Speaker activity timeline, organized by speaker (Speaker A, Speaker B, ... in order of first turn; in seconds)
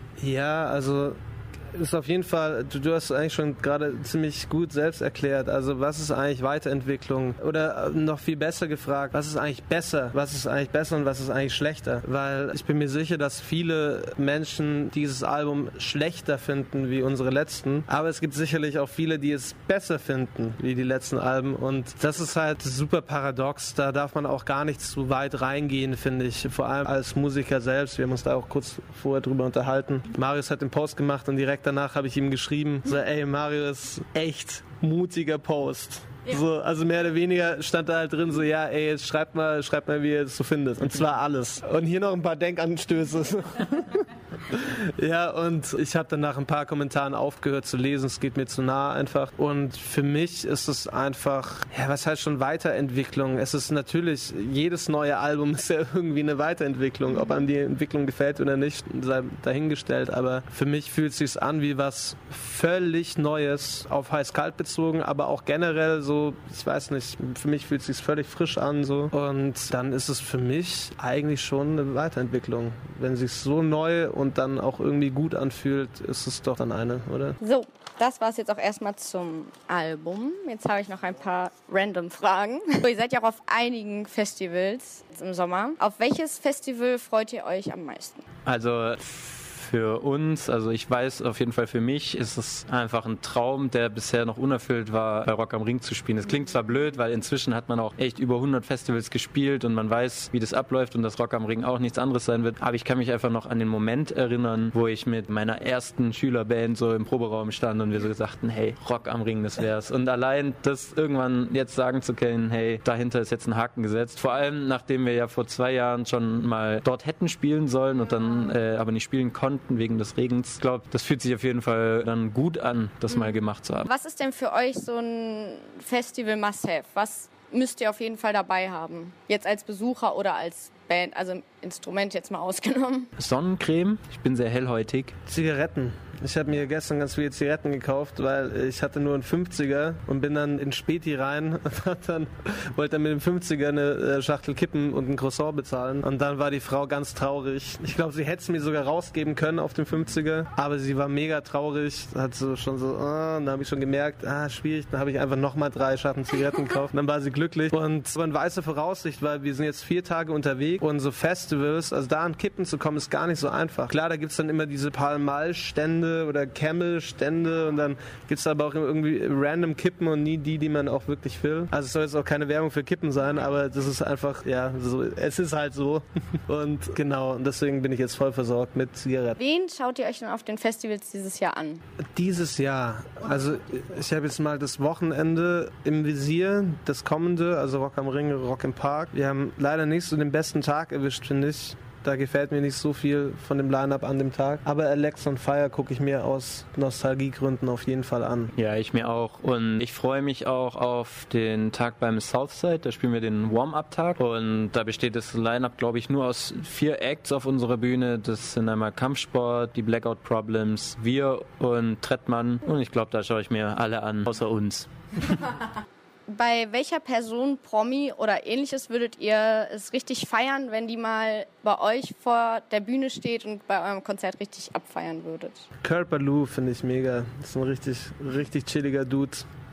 Speaker A: 0.2-1.2, 1.7-77.4, 135.3-179.4, 182.0-198.5, 225.8-229.4
Speaker B: 77.4-88.2, 123.1-133.1, 179.4-181.8, 216.3-225.7
Speaker C: 88.5-123.9, 133.2-135.2, 198.5-214.9